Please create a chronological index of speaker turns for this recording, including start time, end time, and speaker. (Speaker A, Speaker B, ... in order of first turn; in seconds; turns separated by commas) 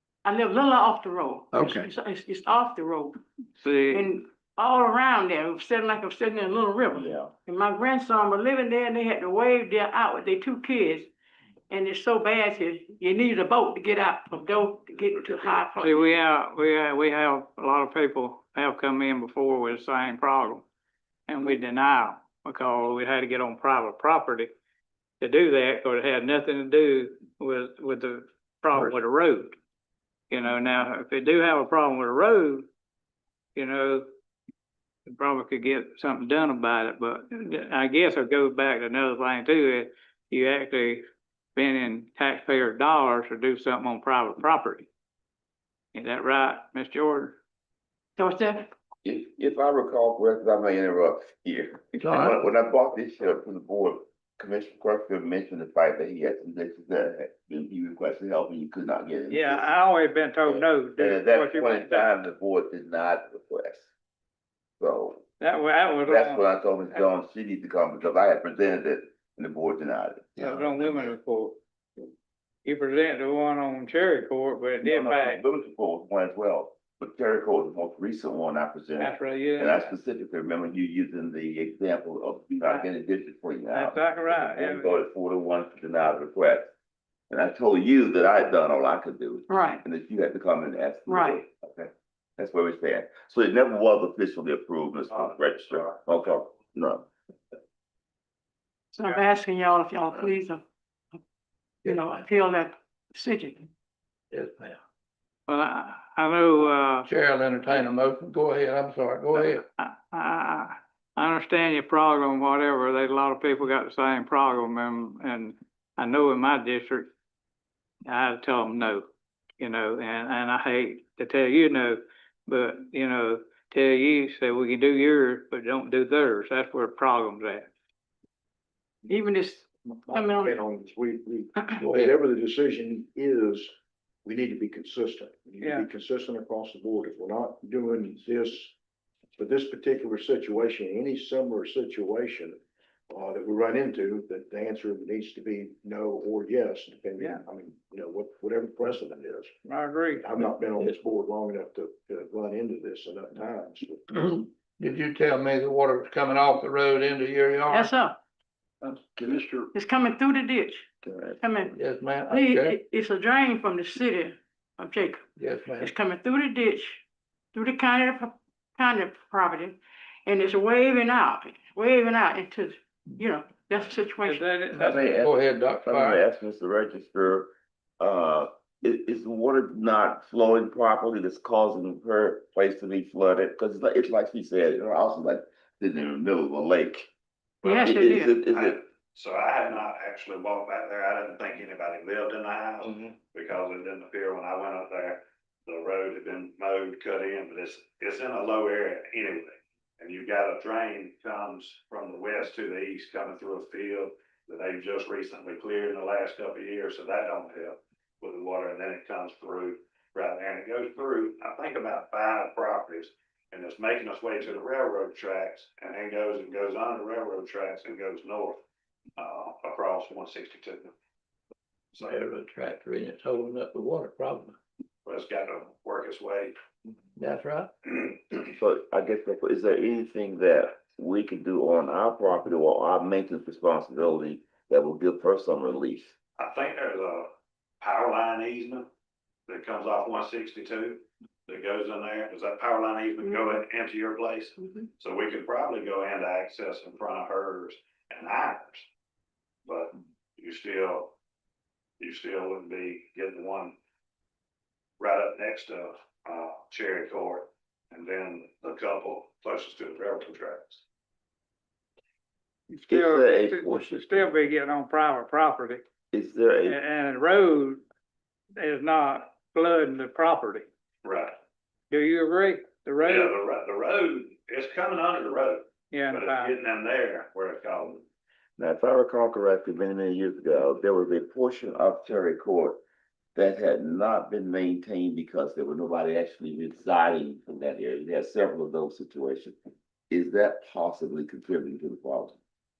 Speaker A: 0.2-3.2, Speaker B: 1.5-1.9, Speaker C: 3.6-4.1, Speaker A: 3.9-11.1, Speaker D: 6.9-7.3, Speaker A: 11.7-16.1, Speaker C: 15.8-20.6, Speaker C: 21.3-24.5, Speaker C: 25.2-29.6, Speaker C: 30.3-32.7, Speaker C: 33.5-34.0, Speaker C: 35.1-41.0, Speaker C: 41.5-44.9, Speaker C: 45.9-47.4, Speaker A: 48.2-48.7, Speaker D: 49.0-59.7, Speaker B: 52.0-52.4, Speaker C: 59.3-62.0, Speaker D: 60.5-63.9, Speaker D: 64.8-65.2, Speaker C: 65.4-67.0, Speaker D: 66.0-71.1, Speaker C: 70.4-71.6, Speaker C: 72.6-75.4, Speaker D: 74.8-86.7, Speaker C: 79.0-79.9, Speaker C: 83.7-85.0, Speaker D: 87.3-97.1, Speaker A: 89.5-89.8, Speaker A: 91.1-91.4, Speaker A: 98.9-100.6, Speaker A: 101.8-103.7, Speaker B: 104.3-104.8, Speaker C: 105.5-107.1, Speaker B: 107.0-109.6, Speaker C: 109.3-117.1, Speaker C: 118.1-119.1, Speaker C: 119.6-127.7, Speaker A: 129.1-130.6, Speaker E: 130.1-133.7, Speaker B: 131.8-132.2, Speaker E: 134.2-138.7, Speaker C: 135.6-135.9, Speaker E: 139.4-142.6, Speaker E: 143.1-149.5, Speaker C: 149.6-150.2, Speaker E: 150.2-154.1, Speaker B: 154.1-157.9, Speaker A: 157.7-158.2, Speaker D: 159.1-159.7, Speaker A: 159.7-160.9, Speaker D: 161.0-161.4, Speaker A: 161.4-161.7, Speaker B: 161.7-162.8, Speaker A: 162.2-165.2, Speaker B: 165.4-165.9, Speaker A: 165.8-174.4, Speaker C: 174.2-175.1, Speaker B: 174.7-176.2, Speaker D: 174.8-187.1, Speaker A: 187.6-188.3, Speaker D: 187.8-188.8, Speaker F: 188.5-218.6, Speaker F: 219.2-220.9, Speaker F: 221.9-222.2, Speaker B: 222.0-224.6, Speaker F: 225.0-226.5, Speaker B: 227.2-227.7, Speaker D: 228.5-236.1, Speaker F: 236.4-237.3, Speaker F: 237.8-238.9, Speaker F: 239.5-248.8, Speaker F: 249.7-251.1, Speaker F: 252.0-253.8, Speaker F: 255.0-260.8, Speaker C: 262.7-265.8, Speaker D: 262.9-264.3, Speaker D: 266.1-266.8, Speaker C: 266.6-267.8, Speaker C: 268.6-270.7, Speaker F: 271.0-271.4, Speaker C: 271.9-273.3, Speaker F: 273.0-278.0, Speaker C: 275.9-276.6, Speaker D: 278.6-282.8, Speaker D: 283.3-289.6, Speaker D: 290.1-292.4